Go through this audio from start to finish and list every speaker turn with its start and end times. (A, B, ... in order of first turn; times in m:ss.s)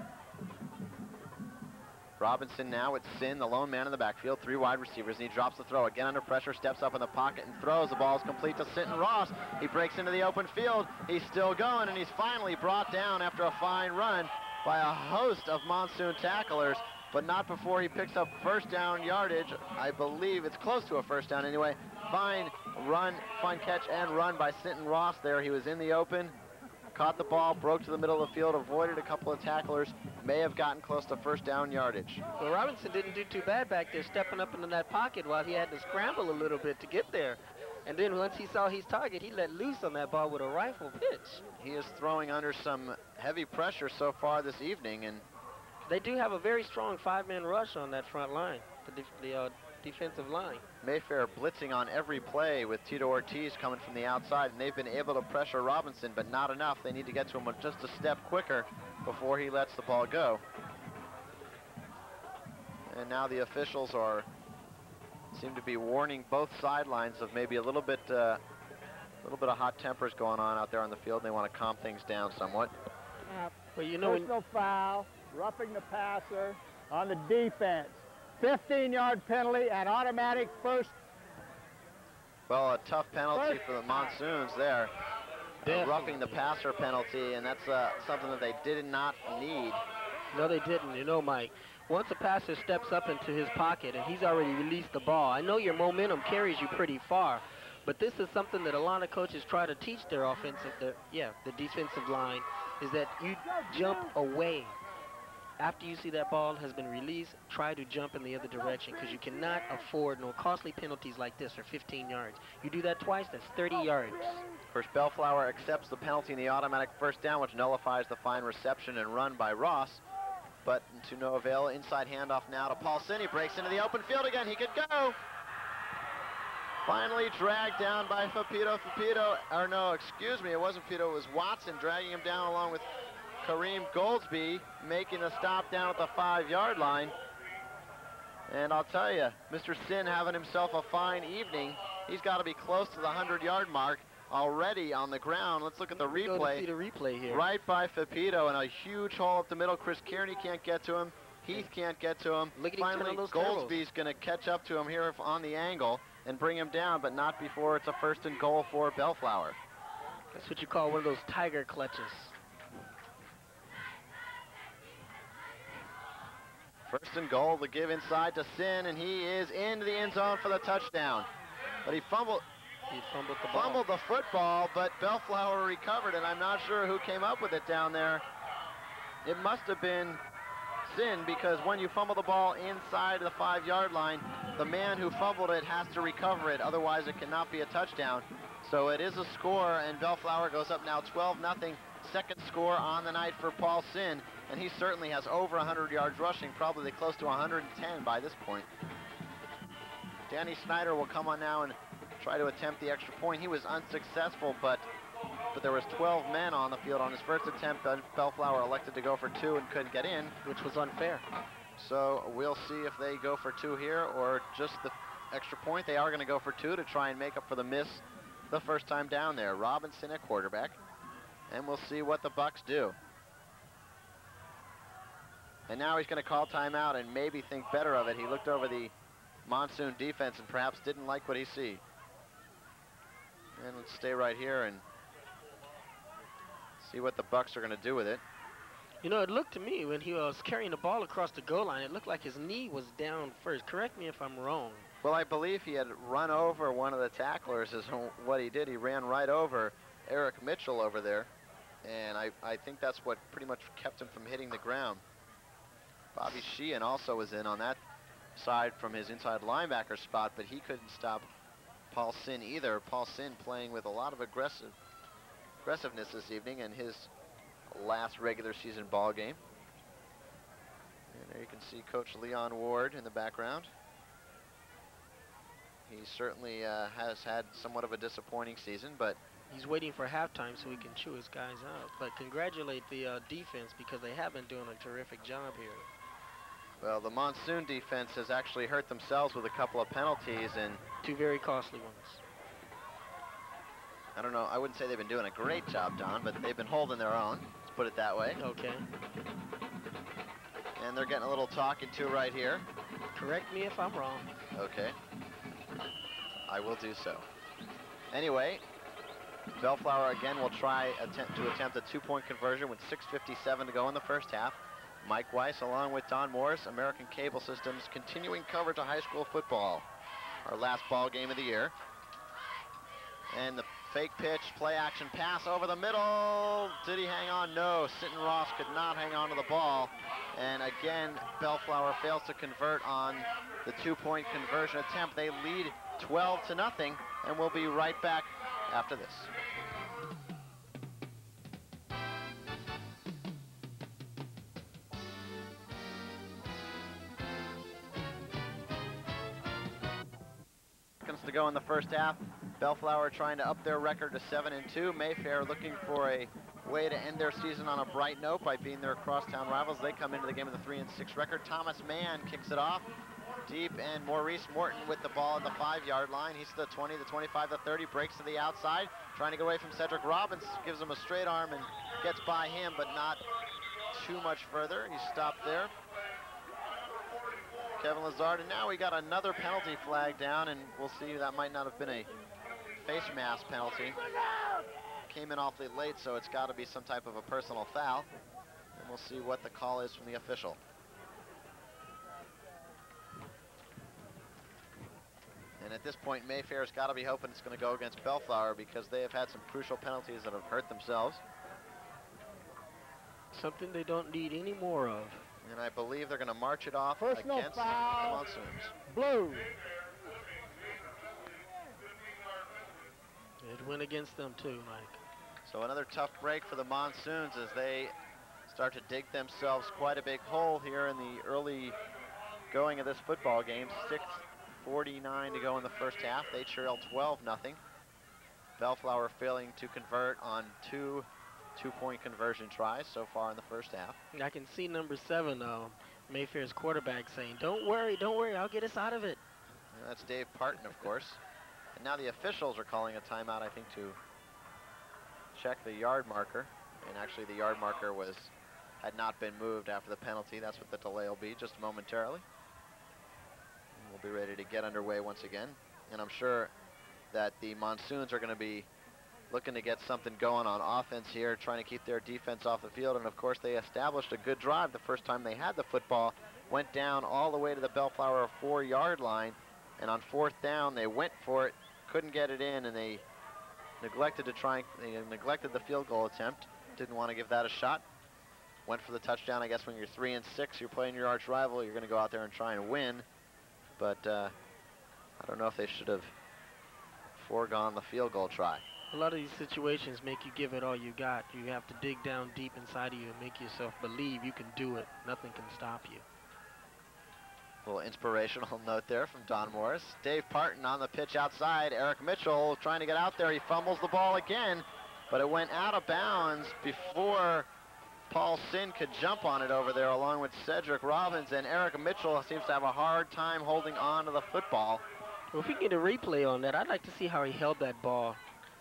0:02.2-0:26.4 A
0:26.9-0:32.2 A
0:32.4-0:41.4 B
0:41.6-0:45.3 A
0:45.8-0:50.6 B
0:50.8-1:00.4 A
1:02.9-1:04.3 A
1:05.3-1:08.4 A
1:09.2-1:12.7 A
1:13.3-1:21.0 C
1:13.8-1:14.3 B
1:22.5-1:24.9 A
1:23.3-1:24.1 C
1:25.6-1:29.8 A
1:25.6-1:26.4 B
1:30.3-1:44.8 B
1:45.6-1:54.4 B
1:54.7-2:00.0 A
2:00.6-2:05.2 A
2:06.8-2:12.9 A
2:13.4-2:17.1 A
2:18.5-2:26.7 A
2:25.9-2:27.5 B
2:27.3-2:39.6 A
2:32.6-2:33.8 B
2:40.3-2:42.3 B
2:46.9-2:51.3 A
2:51.8-2:52.4 A
2:52.9-2:53.8 B
2:53.5-2:58.2 A
2:59.2-3:00.2 A
3:00.8-3:18.7 A
3:20.3-3:24.9 A
3:25.5-3:30.4 A
3:30.4-3:31.2 B
3:31.8-3:40.8 A
3:41.5-3:43.0 A
3:45.7-3:48.9 A
3:49.4-3:51.8 A
3:53.6-3:54.8 A
3:56.8-3:58.2 A
3:59.0-4:04.9 B
4:05.0-4:11.3 A
4:11.8-4:15.0 A
4:16.2-4:17.8 A
4:18.4-4:21.3 A
4:21.9-4:24.7 A
4:25.6-4:27.1 A
4:27.7-4:29.4 A
4:31.1-4:33.7 A
4:35.9-4:39.2 A
4:39.5-4:45.9 B
4:46.8-4:50.8 A
4:51.0-4:52.2 B
4:54.2-4:58.4 A
4:58.4-4:58.8 B
5:00.8-5:02.7 A
5:03.2-5:04.3 B
5:04.5-5:05.0 A
5:06.5-5:07.2 A
5:08.1-5:08.6 A
5:09.6-5:19.9 A
5:20.5-5:21.7 A
5:23.3-5:39.3 A
5:51.0-6:02.9 A
6:03.5-6:13.2 A
6:13.9-6:15.7 A
6:17.8-6:22.1 A
6:22.8-6:24.0 A
6:25.1-6:28.1 A
6:28.8-6:30.6 A
6:35.6-6:41.2 A
6:43.3-6:45.2 B
6:45.4-6:48.7 A
6:47.0-6:48.2 C
6:48.9-6:49.5 C
6:53.4-6:55.0 B
6:55.5-6:57.9 A
6:58.5-7:01.8 A
7:02.5-7:07.6 A
7:08.6-7:14.0 A
7:14.1-7:19.2 B
7:19.7-7:21.2 A
7:21.8-7:24.0 A
7:25.3-7:32.2 A
7:33.8-7:36.5 A
7:37.1-7:38.7 A
7:39.3-7:53.0 A
7:53.8-7:57.8 A
7:58.7-8:03.1 A
8:03.8-8:04.3 A
8:05.2-8:06.1 A
8:07.2-8:08.6 A
8:08.9-8:16.0 B
8:17.7-8:27.5 A
8:28.1-8:34.8 A
8:35.3-8:38.2 B